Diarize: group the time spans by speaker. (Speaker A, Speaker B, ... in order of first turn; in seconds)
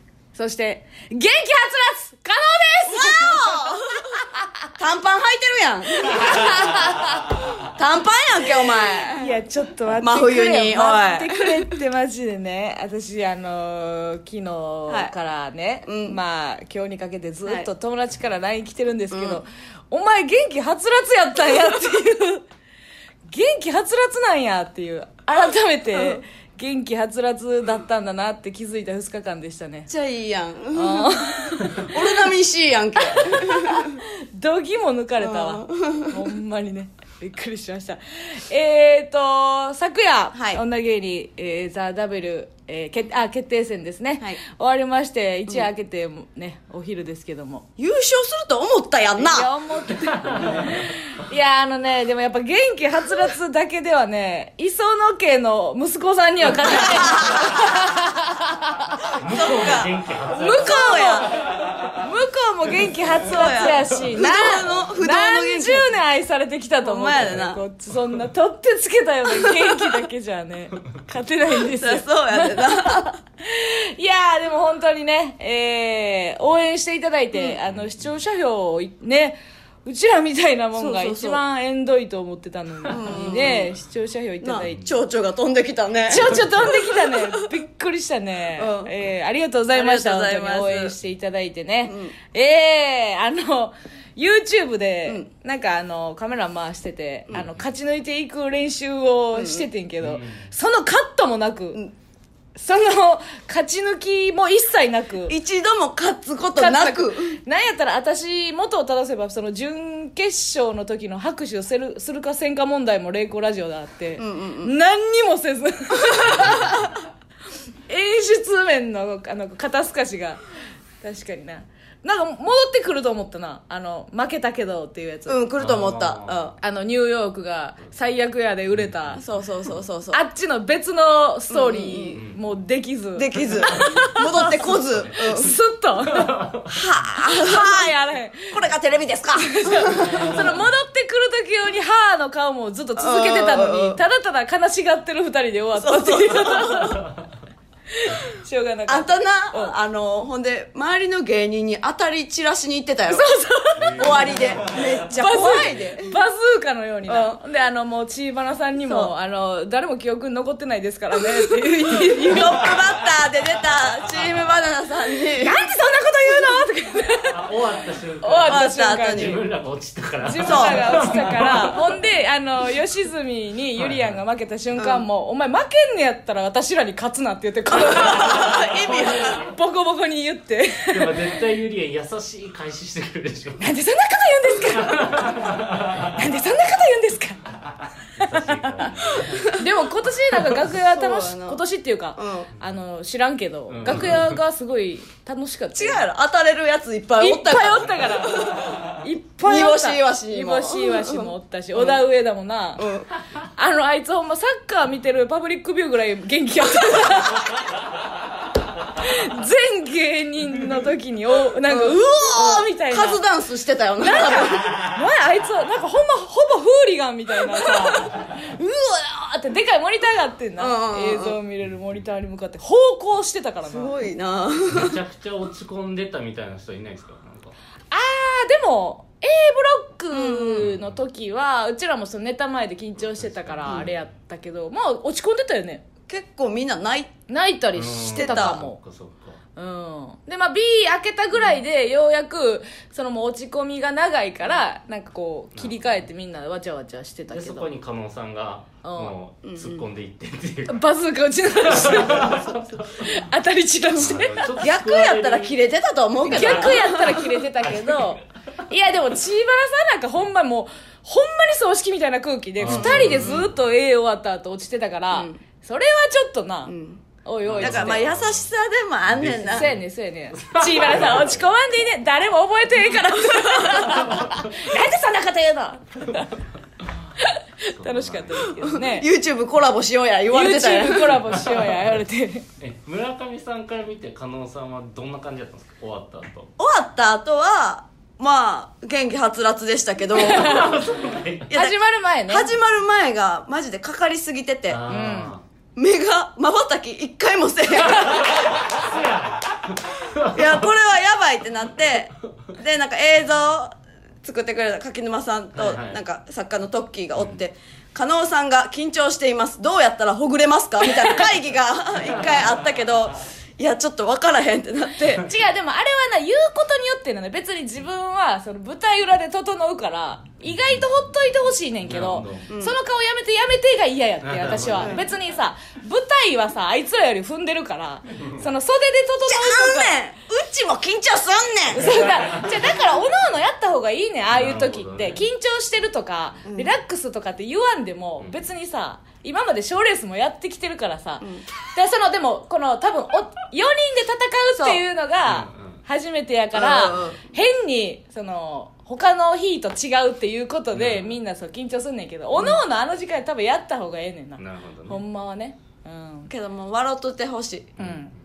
Speaker A: 0.3-3.5, 6.0-7.4, 8.9-22.4, 23.3-29.9, 30.7-31.9, 33.1-47.6, 49.2-59.0, 60.4-84.9, 86.1-101.8, 102.5-105.3, 106.5-116.9, 117.9-120.4, 121.0-125.4, 126.6-129.2, 130.1-134.4, 135.1-136.4, 137.1-138.7, 139.4-147.1, 147.9-149.7, 153.1-154.3, 155.1-162.7, 165.4-167.4, 168.2-169.4, 170.2-181.2, 183.6-187.4, 188.5-196.0, 197.2-202.9, 203.4-207.6, 208.9-213.2, 214.0-223.9, 227.9-235.8, 237.3-238.8, 239.6-247.7, 248.8-249.1, 250.7-254.6, 256.2-268.1, 269.5-276.3, 277.2-279.1, 280.3-282.4, 290.1-290.7, 291.5-292.5, 294.9-295.3, 315.1-330.0, 331.7-356.3, 357.8-358.1
Speaker B: 2.9-4.0, 4.8-6.5, 7.6-9.4, 10.0-11.7, 15.8-16.2, 19.1-19.4, 25.9-26.2, 29.9-34.0, 35.2-36.2, 40.3-40.6, 47.8-49.5, 57.0-57.4, 59.2-59.9, 60.5-61.3, 63.3-65.9, 66.8-67.6, 71.7-73.2, 80.7-81.4, 82.9-83.7, 84.4-87.3, 88.5-88.9, 89.7-90.9, 91.8-92.1, 99.3-99.7, 105.3-107.4, 114.2-114.7, 125.3-126.5, 129.2-130.2, 131.5-132.2, 133.2-135.5, 136.7-140.4, 143.0-144.0, 145.7-147.0, 148.9-153.3, 153.9-156.2, 157.1-157.4, 158.8-159.1, 162.1-165.7, 168.5-169.4, 170.4-170.9, 174.8-175.1, 177.7-179.5, 190.7-191.6, 192.2-192.5, 195.7-198.7, 199.4-202.0, 202.8-203.1, 211.7-214.7, 220.6-221.4, 223.6-225.0, 230.1-230.7, 236.1-237.1, 238.2-238.5, 249.4-249.8, 254.6-257.3, 262.6-263.4, 265.1-265.4, 266.6-267.0, 267.6-269.7, 278.6-281.4, 286.6-290.7, 291.5-294.8, 295.8-298.5, 300.3-315.2, 322.5-322.8, 329.2-332.1, 336.4-336.7, 344.6-344.8, 346.5-347.3, 356.3-357.7
Speaker C: 50.0-50.8, 59.2-60.7, 77.7-78.1, 84.6-84.9, 97.3-97.6, 100.0-100.5, 125.6-126.5, 128.7-129.2, 132.1-132.4, 134.9-135.2, 136.0-136.7, 153.8-154.8, 167.3-171.8, 173.8-174.1, 180.9-183.7, 184.9-185.8, 188.1-189.4, 193.7-194.4, 224.7-227.6, 230.6-230.9, 233.2-234.0, 237.7-239.4, 245.5-245.9, 247.3-250.8, 251.6-253.2, 253.9-255.6, 256.2-258.1, 262.6-263.5, 267.4-268.5, 269.1-269.8, 270.3-271.5, 274.0-274.6, 277.7-278.5, 281.3-281.6, 282.6-286.5, 290.3-291.5, 294.7-295.4, 298.0-300.7, 305.5-306.0, 307.1-307.4, 320.5-320.9, 321.9-322.5, 324.2-325.0, 332.1-332.6, 334.3-335.2, 345.2-345.8, 350.7-351.2, 354.4-355.0, 357.8-358.1